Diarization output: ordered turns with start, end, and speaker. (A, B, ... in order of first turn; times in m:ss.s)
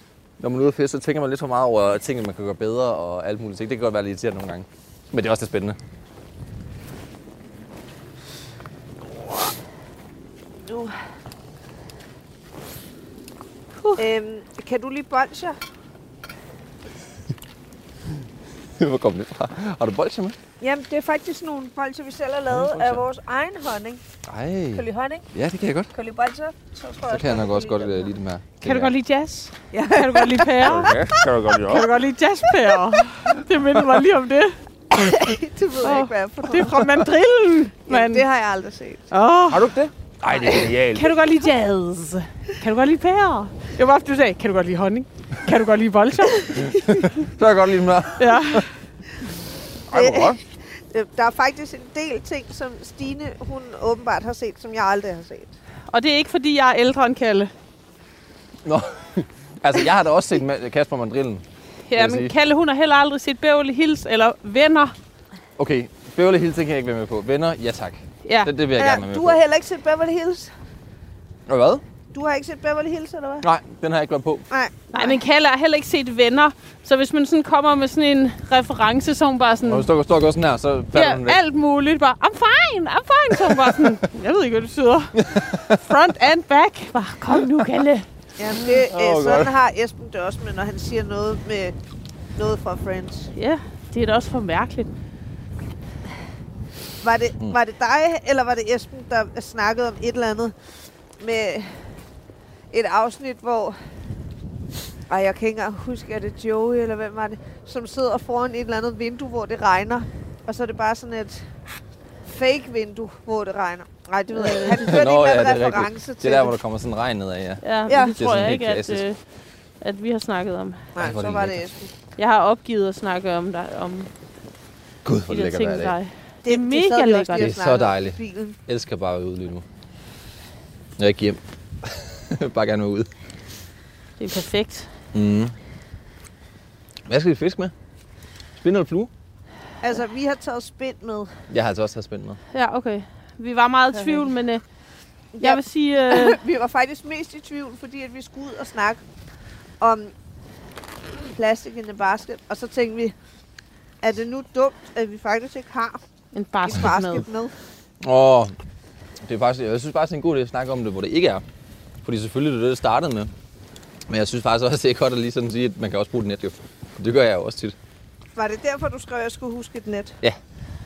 0:00.4-0:05.8 A
0:10.7-0:10.9 B
0:14.0-0:15.6 B
0:18.8-0:20.4 A
0:20.6-0:24.0 B
0:22.5-0:23.0 A
0:24.3-0:25.9 A
0:24.8-0:25.2 B
0:25.9-0:28.1 B
0:27.1-0:28.9 A
0:28.6-0:31.0 C
0:29.7-0:30.8 B
0:30.6-0:31.9 A
0:31.6-0:34.6 C
0:34.9-0:36.8 B
0:35.8-0:38.2 C
0:37.9-0:39.1 B
0:39.1-0:39.6 C
0:39.5-0:41.1 A
0:40.9-0:47.2 C
0:46.6-0:48.6 A
0:48.2-0:48.7 C
0:49.9-0:50.4 A
0:49.9-0:55.5 B
0:55.9-0:57.5 C
0:58.6-1:01.4 A
1:01.9-1:04.9 C
1:02.0-1:02.3 A
1:05.6-1:09.4 A
1:08.2-1:08.5 C
1:08.8-1:10.5 B
1:11.5-1:11.8 A
1:12.1-1:13.4 B
1:13.4-1:14.4 A
1:14.5-1:15.1 B
1:14.9-1:19.9 C
1:19.6-1:21.4 A
1:20.9-1:28.0 C
1:25.2-1:25.8 A
1:28.4-1:31.8 B
1:28.8-1:29.5 A
1:32.3-1:33.3 B
1:33.3-1:34.9 C
1:37.0-1:40.5 B
1:41.2-1:41.7 B
1:42.7-1:43.8 B
1:45.1-1:51.5 B
1:52.2-1:56.6 B
1:54.8-1:57.6 A
1:57.6-1:59.2 C
1:57.9-1:58.2 B
1:58.2-1:59.0 A
1:59.8-2:00.9 C
2:01.0-2:01.9 B
2:01.0-2:01.6 A
2:02.2-2:04.1 C
2:05.0-2:06.0 A
2:05.3-2:07.5 C
2:06.4-2:08.6 B
2:07.4-2:09.6 A
2:11.0-2:13.1 A
2:14.2-2:14.9 C
2:15.1-2:15.5 A
2:17.1-2:17.7 A
2:18.6-2:19.1 A
2:19.8-2:21.3 B
2:21.5-2:22.4 A
2:22.5-2:24.6 C
2:23.9-2:24.3 B
2:25.3-2:29.0 B
2:25.4-2:26.4 C
2:29.8-2:30.1 B
2:31.2-2:33.1 B
2:34.0-2:36.0 B
2:36.3-2:37.3 C
2:36.6-2:37.5 B
2:38.0-2:38.5 A
2:39.2-2:41.4 A
2:42.0-2:43.3 A
2:44.1-2:47.7 A
2:48.4-2:50.2 B